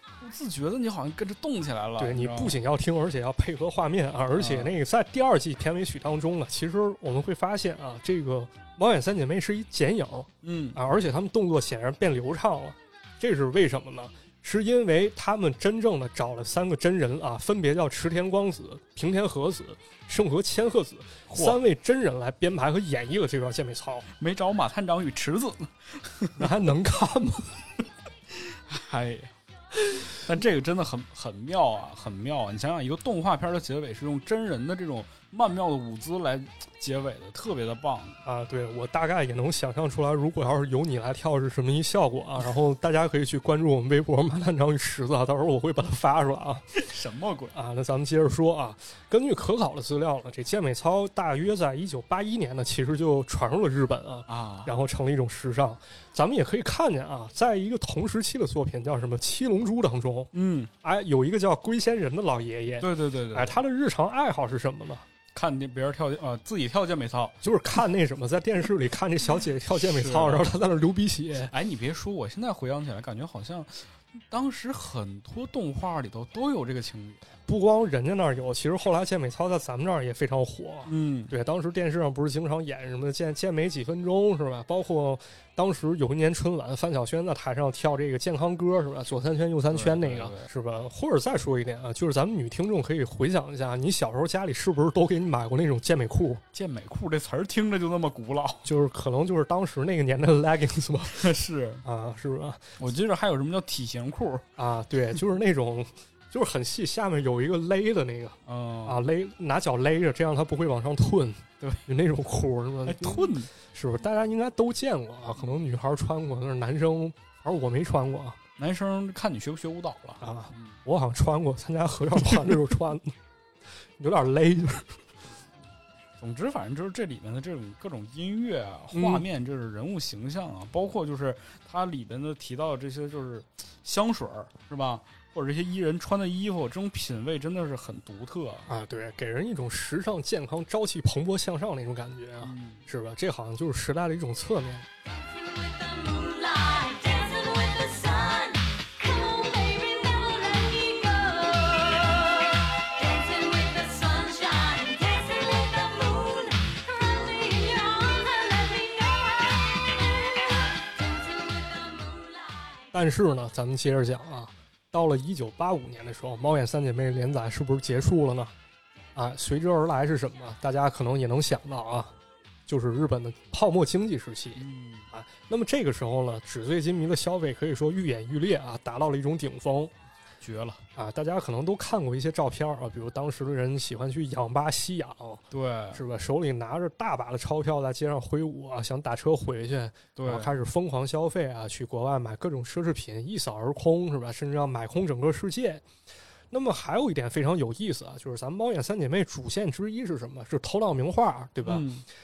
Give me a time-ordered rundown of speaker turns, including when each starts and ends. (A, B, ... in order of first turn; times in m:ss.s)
0:00.2-0:02.6 A
0:02.0-0:24.1 B
0:04.4-0:04.8 A
0:10.4-0:10.8 A
0:21.3-0:21.6 A
0:24.1-0:26.6 A
0:26.4-0:27.6 B
0:28.3-0:38.2 A
0:38.2-0:46.7 B
0:46.7-0:47.5 A
0:47.5-1:00.3 B
0:54.3-0:54.7 A
1:00.3-1:00.7 A
1:00.8-1:05.0 B
1:02.8-1:03.6 A
1:05.3-1:07.4 A
1:07.4-1:11.5 B
1:09.8-1:10.6 A
1:11.4-1:17.3 A
1:17.5-1:36.4 B
1:20.9-1:21.3 A
1:29.7-1:30.5 A
1:36.5-1:38.7 A
1:38.6-1:42.8 B
1:41.1-1:41.8 A
1:42.8-1:44.5 A
1:44.6-1:58.4 B
1:48.5-1:49.1 A
1:52.9-1:53.5 A
1:58.6-2:00.7 A
2:00.2-2:03.2 B
2:04.0-2:05.0 B
2:06.2-2:18.7 A
2:08.9-2:09.2 B
2:18.7-2:24.9 B
2:22.4-2:22.8 A
2:25.0-2:42.9 C
2:42.9-2:48.5 B
2:49.2-2:52.1 B
2:52.7-2:59.9 B
2:54.6-2:55.1 A
3:00.4-3:00.8 A
3:01.0-3:15.8 B
3:05.5-3:06.0 A
3:10.2-3:10.6 A
3:16.5-3:21.9 B
3:21.6-3:22.0 A